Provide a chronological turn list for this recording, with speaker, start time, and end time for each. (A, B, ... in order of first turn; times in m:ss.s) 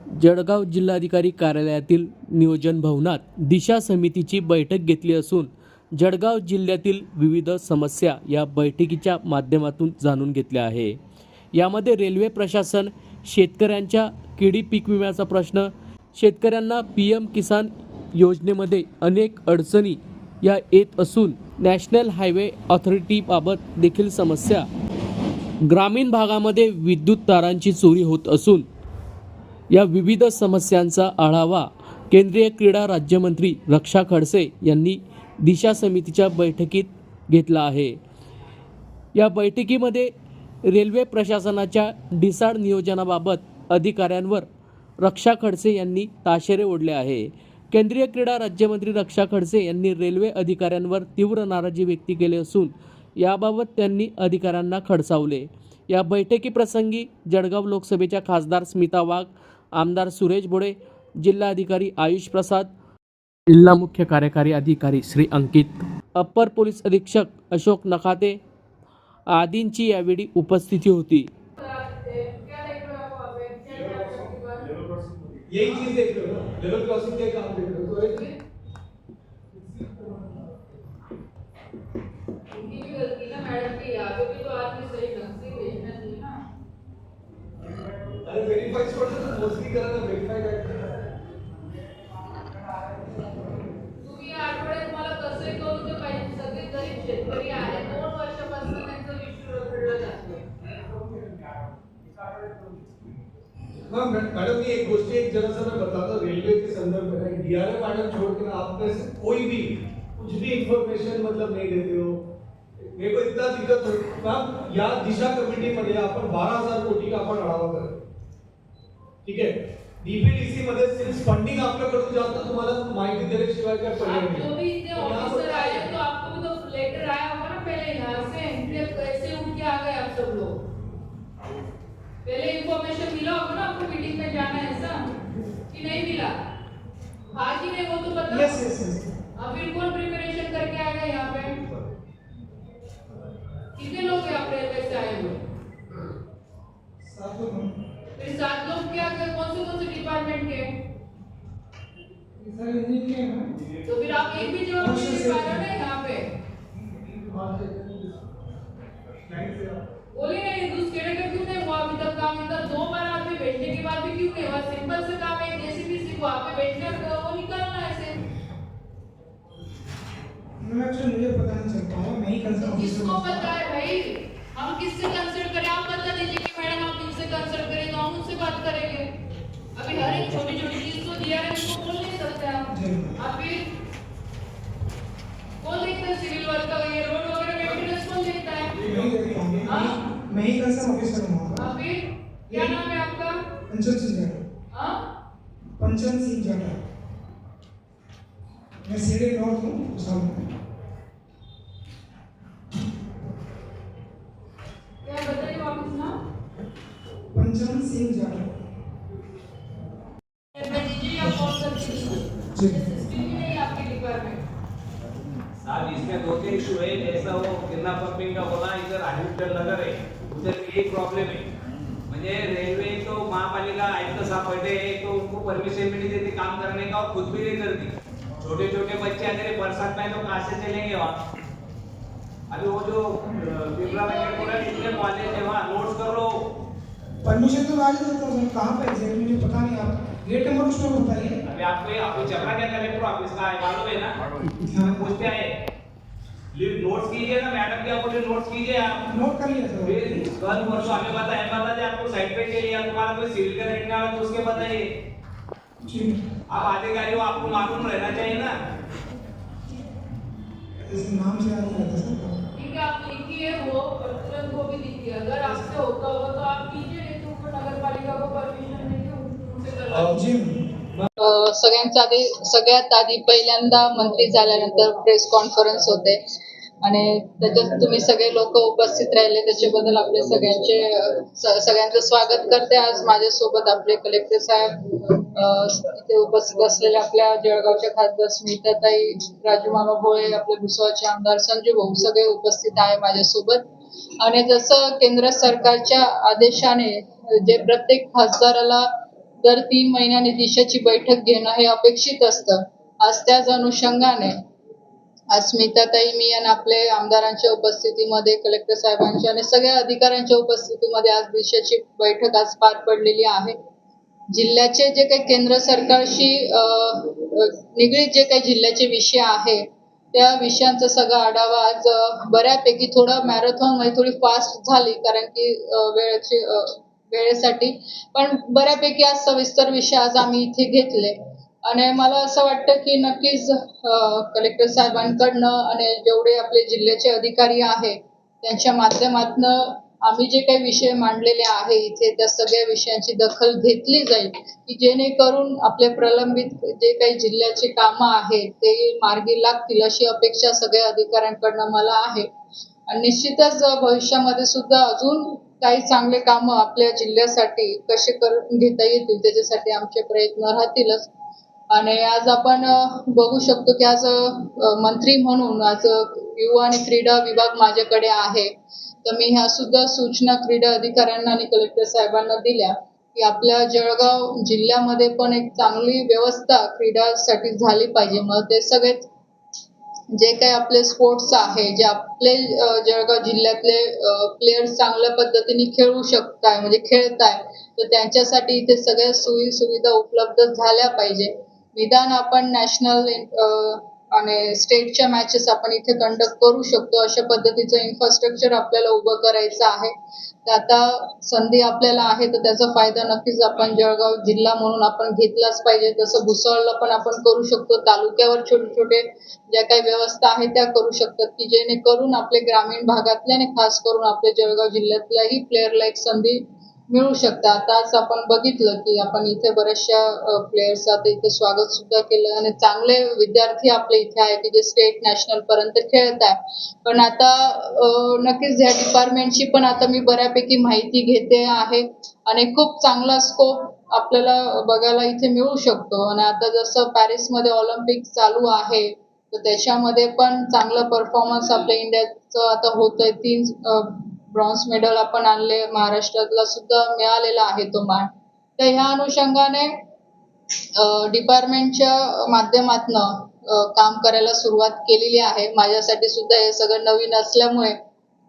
0:00.2-0:11.0 A
0:11.5-0:24.7 A
0:25.6-0:28.6 A
0:29.7-0:38.0 A
0:39.1-0:40.1 A
0:40.6-0:44.5 A
0:45.0-1:02.7 A
1:03.5-1:08.4 A
1:09.3-1:11.3 A
1:11.6-1:14.8 B
1:15.5-1:18.2 C
1:18.0-1:18.3 B
1:22.5-1:26.4 B
1:24.7-1:25.2 D
1:28.2-1:30.9 C
1:34.0-1:40.4 D
1:43.9-1:52.2 C
1:52.9-1:58.0 C
1:59.2-2:06.0 C
2:04.1-2:10.6 D
2:12.2-2:15.1 D
2:15.7-2:16.4 D
2:17.3-2:18.5 D
2:18.3-2:19.2 E
2:19.4-2:21.6 D
2:23.7-2:25.4 D
2:27.0-2:27.8 E
2:28.2-2:30.7 D
2:32.4-2:33.5 E
2:33.9-2:36.3 D
2:34.8-2:35.7 E
2:37.0-2:38.3 C
2:39.2-2:39.8 C
2:40.1-2:48.2 D
2:50.6-2:53.6 E
2:52.6-2:59.1 D
2:59.7-3:02.7 D
3:02.7-3:03.2 E
3:03.3-3:03.7 D
3:05.6-3:08.8 D
3:08.8-3:09.8 C
3:08.8-3:11.8 E
3:11.8-3:12.0 D
3:12.5-3:12.8 E
3:12.5-3:13.3 D
3:13.7-3:14.4 E
3:14.7-3:15.0 D
3:15.8-3:16.8 E
3:18.8-3:20.4 E
3:25.0-3:26.1 B
3:25.2-3:26.0 D
3:27.3-3:28.5 E
3:30.5-3:32.2 D
3:31.2-3:32.0 E
3:32.5-3:33.1 E
3:33.2-3:34.4 D
3:33.7-3:34.0 B
3:35.6-3:41.4 F
3:42.1-3:51.2 F
3:52.5-3:56.4 F
3:54.1-3:54.9 B
3:57.2-4:01.4 E
4:01.4-4:04.1 F
4:04.6-4:05.2 E
4:04.9-4:05.5 F
4:06.5-4:09.0 F
4:09.0-4:11.1 E
4:09.8-4:14.9 F
4:15.8-4:16.2 E
4:16.5-4:18.5 F
4:20.8-4:22.4 E
4:22.5-4:30.0 D
4:29.9-4:30.2 C
4:30.0-4:30.8 E
4:31.2-4:36.2 B
4:36.8-4:53.7 B
4:54.2-4:58.9 B
4:59.4-5:04.3 B
5:05.3-5:13.6 B
5:14.3-5:52.3 B
5:52.9-6:01.1 B
6:01.7-6:08.5 B
6:09.0-6:19.1 B
6:20.1-6:39.9 B
6:40.4-7:29.8 B
7:30.7-7:37.8 B